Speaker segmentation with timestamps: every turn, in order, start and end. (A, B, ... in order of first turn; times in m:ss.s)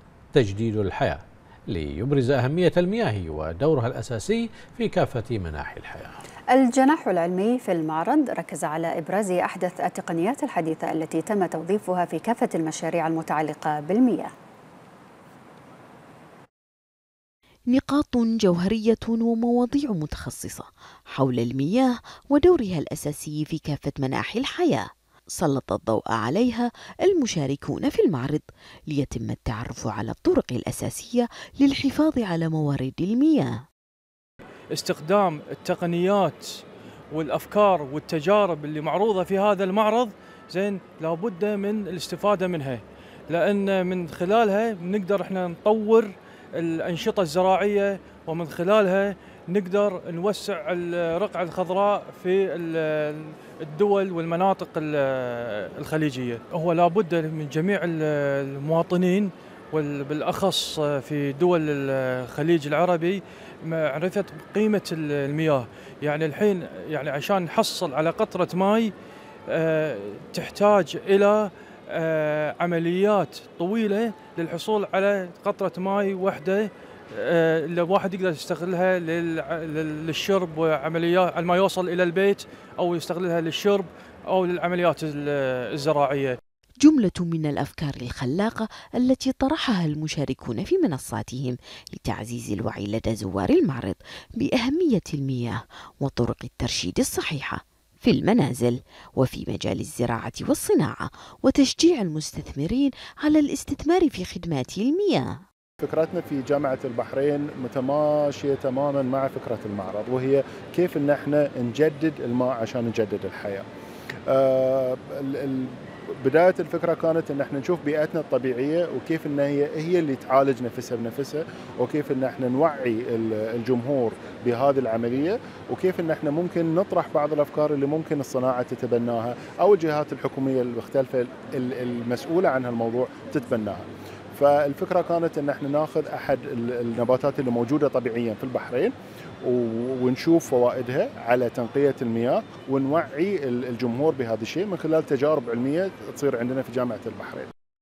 0:00.3-0:06.1 A
0:06.5-0:14.3 B
0:17.7-0:24.8 C
0:25.4-0:33.5 C
0:34.7-0:36.5 D
0:37.1-1:08.9 D
1:09.5-1:26.4 D
1:26.8-1:45.4 C
1:45.8-1:53.6 E
1:54.3-2:27.5 E